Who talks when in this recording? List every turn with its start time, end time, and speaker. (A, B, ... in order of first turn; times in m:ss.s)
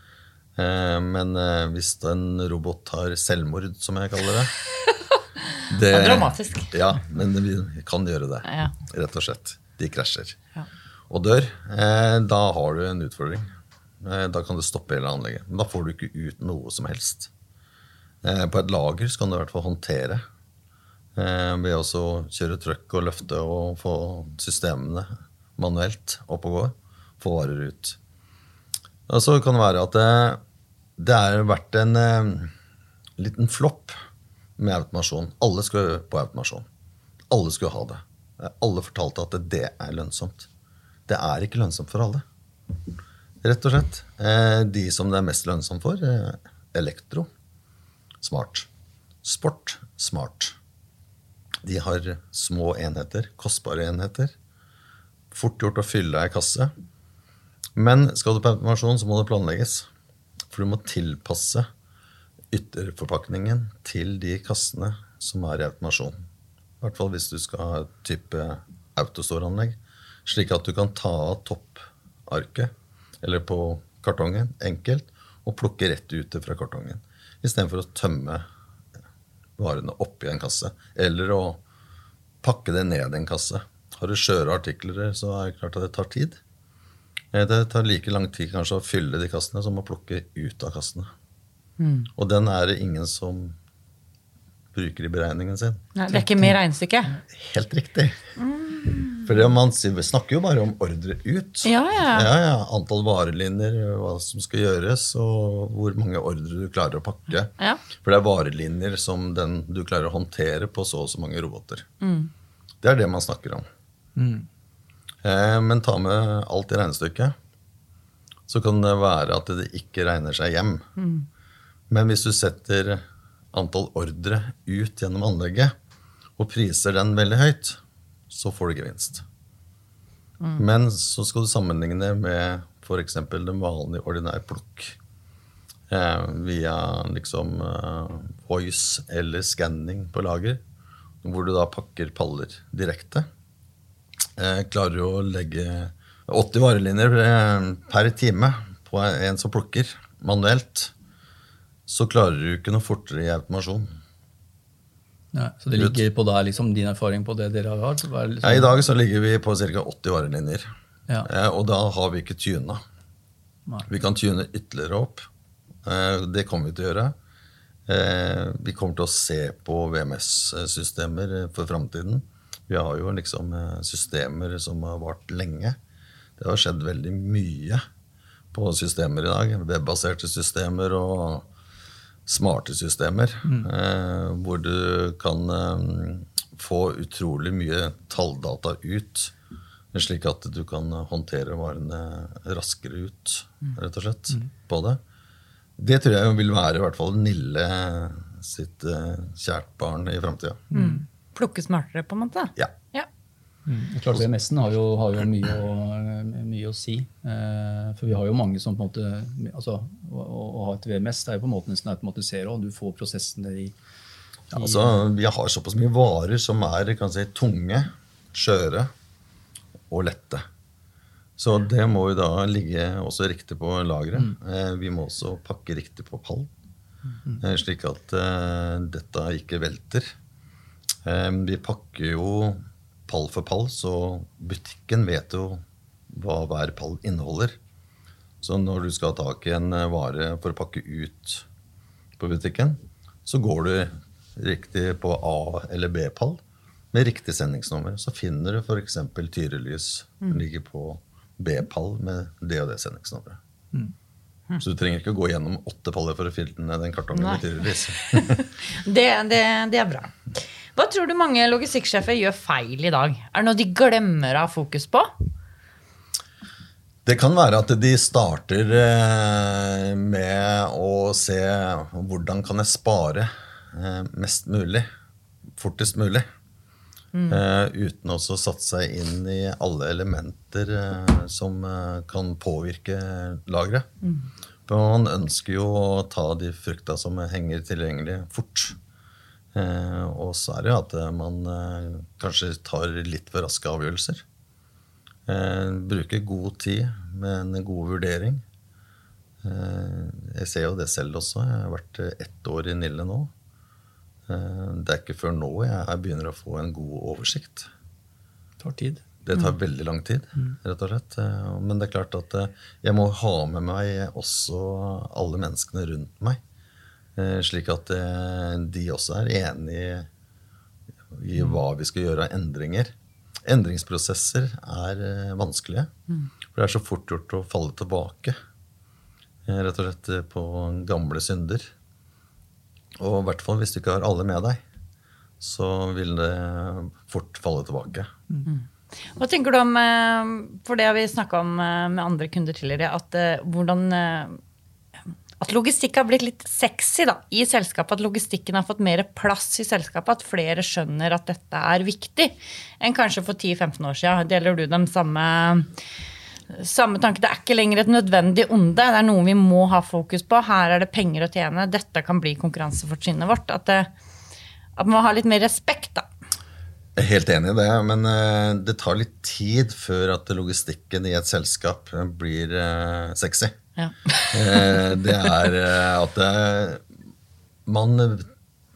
0:00.6-0:04.5 A
0:05.5-0:06.7 B
0:05.7-0:10.4 A
0:08.5-0:08.7 B
0:11.1-0:13.4 A
0:14.0-0:17.3 A
0:18.2-0:20.2 A
0:21.2-0:28.0 A
0:29.1-0:30.4 A
0:31.0-0:32.5 A
0:33.2-0:33.9 A
0:34.6-0:36.7 A
0:37.3-0:40.5 A
0:41.1-0:42.2 A
0:43.4-0:47.3 A
0:48.2-0:48.7 A
0:49.2-0:50.6 A
0:51.6-0:54.3 A
0:55.3-0:56.7 A
0:57.8-0:59.9 A
1:00.5-1:01.7 A
1:02.5-1:06.2 A
1:06.8-1:18.4 A
1:19.6-1:21.6 A
1:22.4-1:26.4 A
1:27.3-1:31.1 A
1:31.8-1:32.1 B
1:32.2-1:33.6 A
1:34.7-1:35.8 A
1:35.9-1:37.2 B
1:37.2-1:38.2 A
1:38.4-1:39.3 B
1:39.2-1:51.9 A
1:41.6-1:42.3 B
1:52.0-1:52.3 B
1:52.8-1:53.6 A
1:54.2-1:54.5 C
1:55.2-1:57.3 A
1:58.5-2:00.8 A
2:01.0-2:01.3 B
2:01.9-2:03.0 A
2:03.5-2:05.7 A
2:06.4-2:07.8 A
2:08.3-2:09.2 A
2:10.6-2:15.0 A
2:15.9-2:20.6 A
2:21.2-2:23.3 A
2:24.4-2:30.9 A
2:31.9-2:33.9 A
2:35.3-2:38.8 C
2:35.7-2:36.0 A
2:38.4-2:40.7 A
2:41.2-2:42.8 A
2:43.9-2:45.3 A
2:45.8-2:47.1 A
2:47.9-2:55.8 A
2:56.4-2:57.8 A
2:58.5-3:01.5 A
3:02.2-3:09.3 A
3:03.4-3:03.7 C
3:09.9-3:15.0 A
3:15.8-3:20.6 A
3:20.7-3:21.0 C
3:20.7-3:23.1 B
3:23.7-3:33.7 C
3:34.5-3:35.0 C
3:34.5-3:38.9 A
3:39.9-3:40.4 A
3:41.4-3:46.5 A
3:47.4-3:50.1 A
3:51.0-3:57.6 A
3:58.4-4:01.4 A
4:02.2-4:06.4 A
4:06.9-4:13.4 A
4:14.6-4:18.4 A
4:17.1-4:25.1 B
4:27.0-4:34.9 A
4:35.6-4:36.2 A
4:37.1-4:37.4 B
4:37.3-4:43.9 A
4:44.7-4:48.8 A
4:49.5-4:54.2 A
4:55.3-4:58.4 A
4:59.4-5:03.3 A
5:04.3-5:07.7 A
5:08.6-5:09.0 C
5:09.2-5:16.4 A
5:17.2-5:20.1 A
5:21.1-5:22.9 A
5:23.4-5:25.9 A
5:26.5-5:28.4 A
5:29.4-5:31.7 A
5:33.0-5:34.6 A
5:35.4-5:38.1 A
5:38.5-5:44.4 B
5:45.4-5:55.7 B
5:56.5-6:03.9 B
6:04.8-6:06.1 B
6:07.0-6:13.6 A
6:13.8-6:15.4 B
6:14.3-6:16.8 A
6:17.6-6:18.3 A